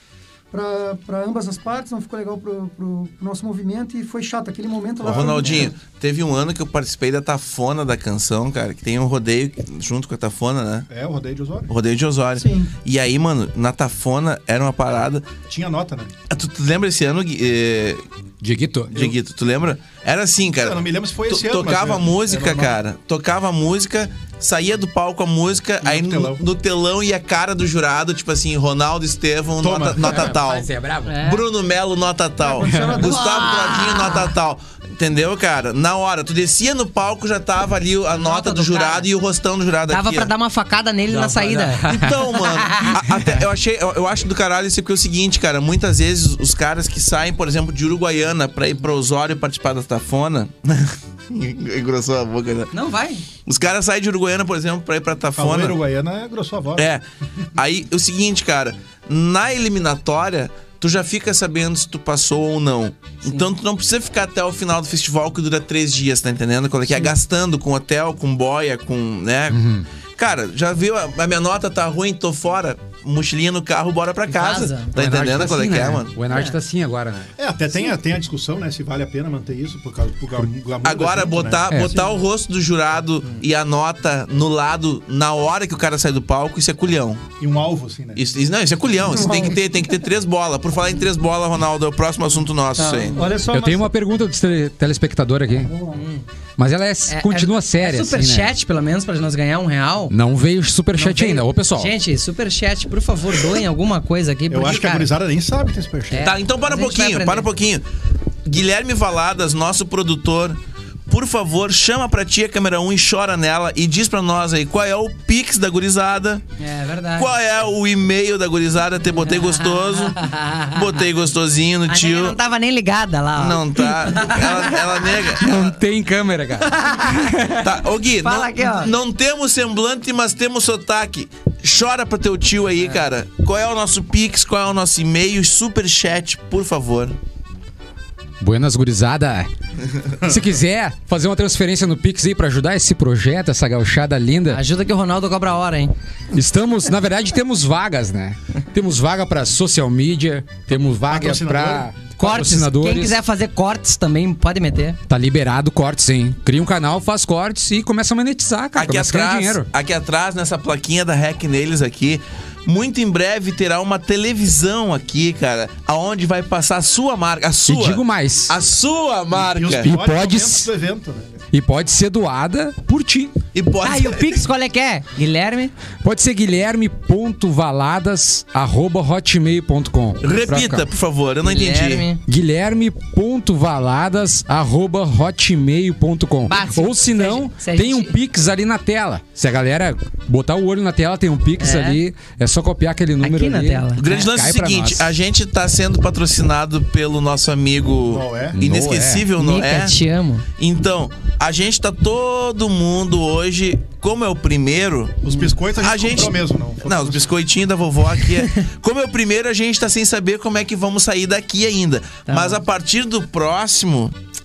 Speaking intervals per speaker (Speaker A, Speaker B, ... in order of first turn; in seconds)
Speaker A: 0.5-5.7, 12.4-12.7, 32.4-33.5, 89.0-89.6, 92.8-93.8, 95.6-96.0
Speaker B: 5.0-5.7, 10.9-11.7, 15.5-16.1, 20.6-22.8, 25.8-26.4, 29.6-30.3, 55.3-56.9, 77.4-81.7, 87.4-88.3, 104.5-106.3, 151.1-151.9, 169.4-171.4, 198.1-198.6, 205.2-207.3
Speaker C: 5.0-10.9, 11.7-15.3, 16.3-18.0, 18.9-30.7, 31.2-40.3, 41.9-52.7, 53.3-55.8, 56.8-57.0, 57.5-69.6, 70.1-76.1, 80.8-87.2, 88.2-93.3, 106.2-107.8, 108.4-116.4, 117.2-122.4, 123.3-125.8, 127.6-137.1, 158.8-169.9, 173.5-174.4, 180.2-182.1, 194.0-200.0, 200.6-214.1
Speaker D: 18.4-19.0, 30.0-31.2, 32.6-33.1, 41.1-42.2, 42.8-43.3, 69.5-69.8, 74.9-77.3, 81.7-82.0, 93.5-95.7, 96.6-98.5, 100.1-101.9, 125.3-127.6, 138.4-139.5, 140.1-144.6, 146.3-153.2, 155.1-159.7, 167.7-168.5, 169.8-170.7, 171.5-173.3, 176.0-180.8, 182.2-195.1, 198.5-199.3
Speaker E: 31.1-31.4, 33.0-34.3, 38.1-39.1, 39.9-43.0, 52.7-53.2, 63.2-63.5, 74.3-74.9, 76.3-76.6, 95.9-96.2, 97.1-100.1, 100.9-105.1, 106.1-107.5, 116.6-117.3, 119.3-121.0, 121.9-125.3, 126.6-127.6, 128.2-128.9, 144.5-145.9, 152.2-155.0, 173.8-175.7, 181.4-182.2, 186.5-188.2, 191.6-192.0, 193.2-194.0, 199.4-200.4, 208.3-208.6, 212.3-212.6